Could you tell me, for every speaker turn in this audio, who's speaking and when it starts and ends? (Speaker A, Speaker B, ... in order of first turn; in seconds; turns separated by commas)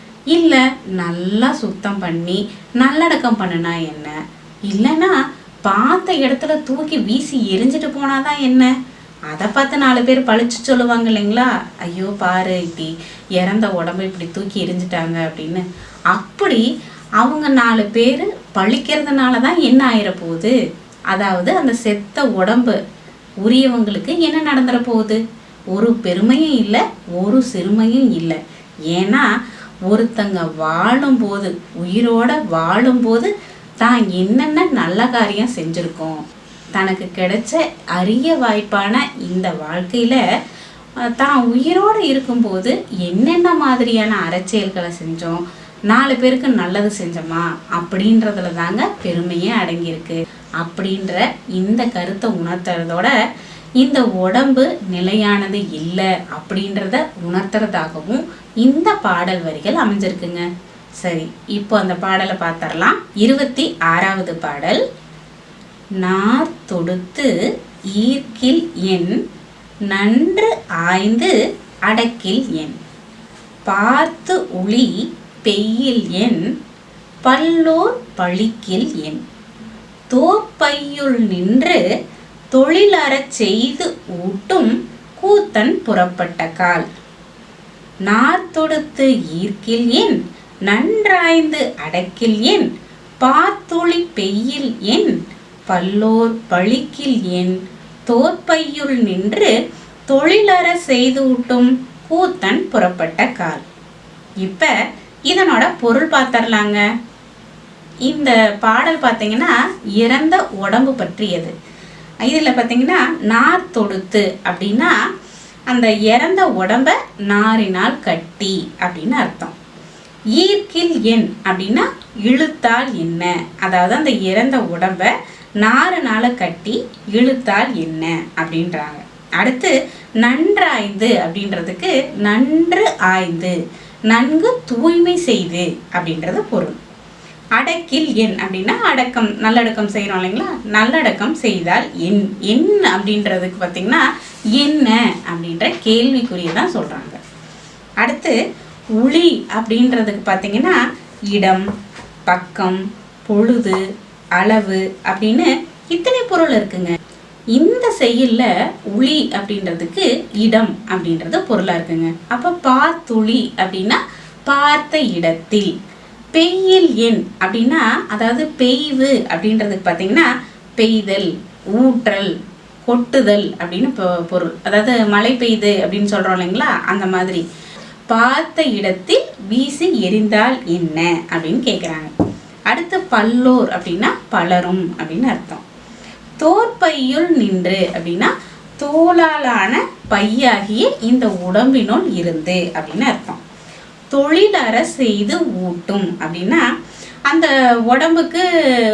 Speaker A: 0.3-4.2, Speaker A: 4.7-5.1, Speaker A: 5.7-8.7, Speaker A: 9.3-16.6, Speaker A: 17.2-20.5, Speaker A: 21.1-22.8, Speaker A: 23.4-25.2, Speaker A: 25.7-28.4, Speaker A: 28.9-29.2, Speaker A: 29.9-33.3, Speaker A: 33.8-36.2, Speaker A: 36.8-40.2, Speaker A: 41.1-53.1, Speaker A: 53.8-60.5, Speaker A: 61.0-64.8, Speaker A: 66.0-67.3, Speaker A: 67.9-69.2, Speaker A: 69.9-71.3, Speaker A: 71.8-72.8, Speaker A: 73.7-74.9, Speaker A: 75.5-76.4, Speaker A: 77.2-79.2, Speaker A: 80.1-81.8, Speaker A: 82.5-86.8, Speaker A: 88.1-92.7, Speaker A: 93.2-95.2, Speaker A: 95.7-97.6, Speaker A: 98.1-99.5, Speaker A: 100.1-103.6, Speaker A: 104.4-104.7, Speaker A: 105.3-106.8, Speaker A: 108.1-111.5, Speaker A: 112.2-114.9, Speaker A: 115.7-119.5, Speaker A: 120.3-133.6, Speaker A: 134.1-136.8, Speaker A: 137.6-144.0, Speaker A: 144.6-147.2, Speaker A: 148.0-148.3, Speaker A: 148.9-151.6, Speaker A: 152.3-153.8, Speaker A: 154.4-156.9, Speaker A: 157.5-165.7, Speaker A: 166.3-172.3, Speaker A: 172.9-177.4, Speaker A: 178.1-182.1, Speaker A: 182.7-185.6, Speaker A: 186.4-193.4, Speaker A: 194.1-196.6, Speaker A: 197.3-198.4